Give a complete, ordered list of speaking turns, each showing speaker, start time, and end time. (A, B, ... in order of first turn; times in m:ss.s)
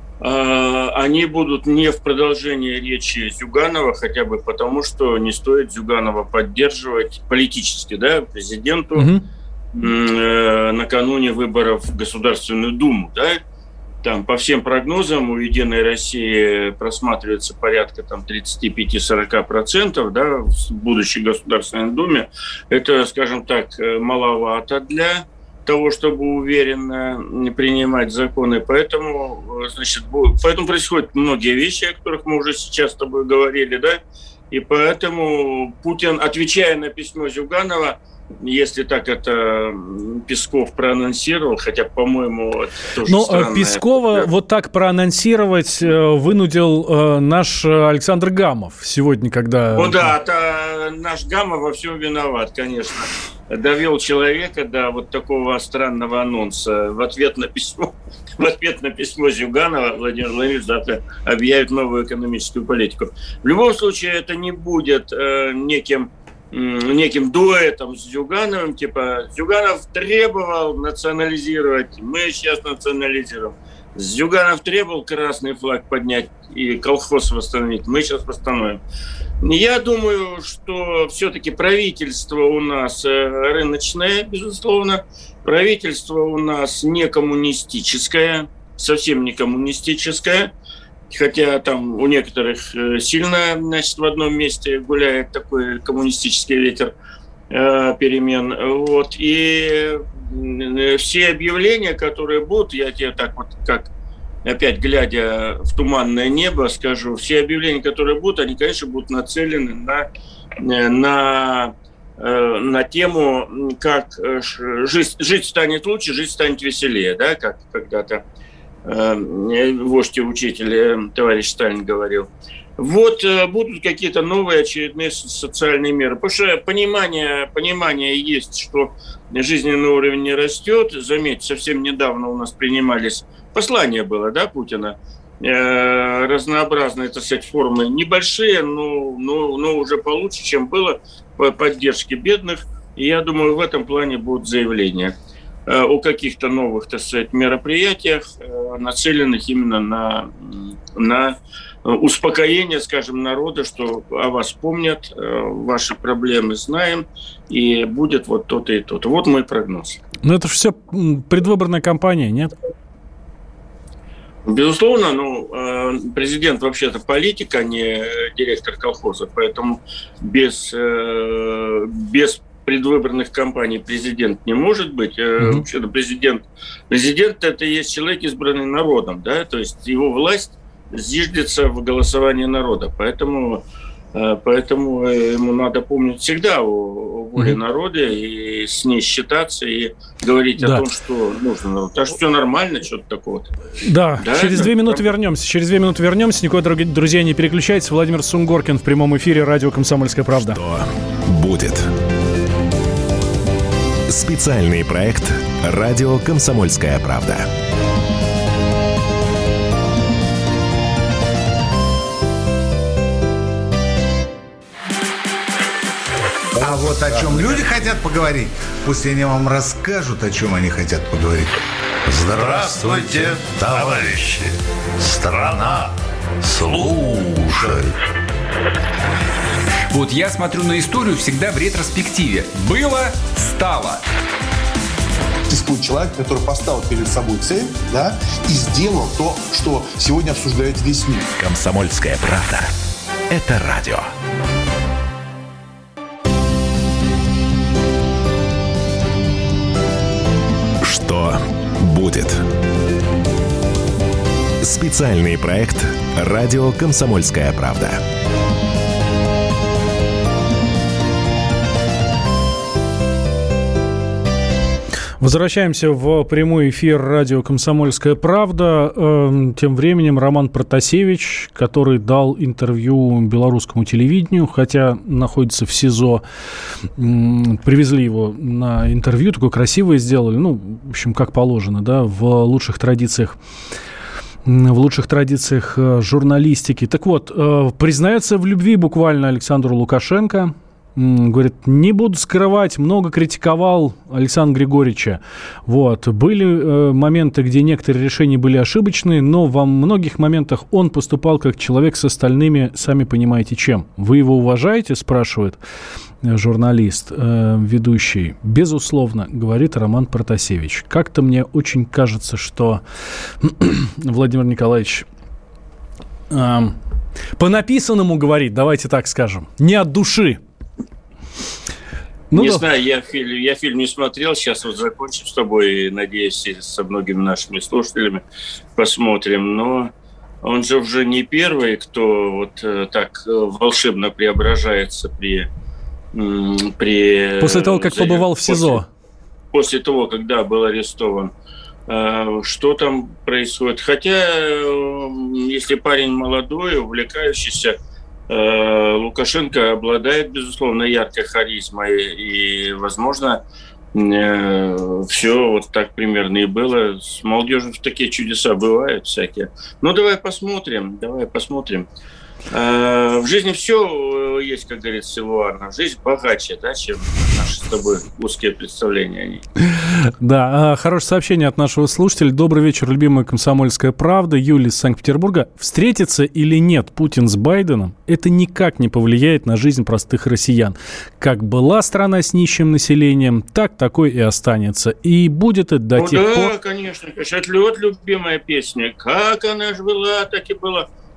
0:00.2-0:09.1 A
0:09.0-0:09.2 B
0:09.7-0:13.4 A
0:14.0-0:34.0 A
0:34.5-0:44.3 A
0:43.0-0:50.1 B
0:49.8-1:18.8 A
1:19.4-1:30.5 A
1:31.1-1:36.9 A
1:37.5-1:43.9 A
1:44.4-1:50.0 A
1:50.6-1:58.2 A
1:58.8-2:25.1 A
2:25.7-2:40.0 A
2:40.2-2:42.5 B
2:44.4-3:13.5 A
2:55.4-2:55.6 B
3:10.6-3:10.8 B
3:13.8-3:20.6 B
3:14.2-3:15.0 A
3:20.4-3:21.9 C
3:24.1-3:27.5 C
3:36.6-3:44.3 D
3:45.0-3:45.8 D
3:46.4-3:47.8 E
3:49.9-3:54.0 F
3:55.5-4:01.2 E
4:01.4-4:02.7 C
4:03.3-4:04.1 C
4:10.8-4:12.5 C
4:14.6-4:18.0 C
4:25.2-4:36.2 B
4:37.0-4:43.4 B
4:44.4-5:05.6 B
5:06.2-5:12.8 B
5:13.4-5:15.0 B
5:16.3-5:16.8 B
5:17.4-5:20.4 B
5:22.3-5:22.6 B
5:22.3-5:28.2 A
5:28.8-5:29.9 A
5:30.4-5:35.5 A
5:36.1-5:38.8 A
5:37.4-5:38.9 B
5:39.5-5:41.3 A
5:41.9-5:47.8 A
5:48.3-5:53.4 A
5:53.9-6:01.9 A
6:02.5-6:09.4 A
6:09.7-6:26.5 B
6:26.0-6:30.9 A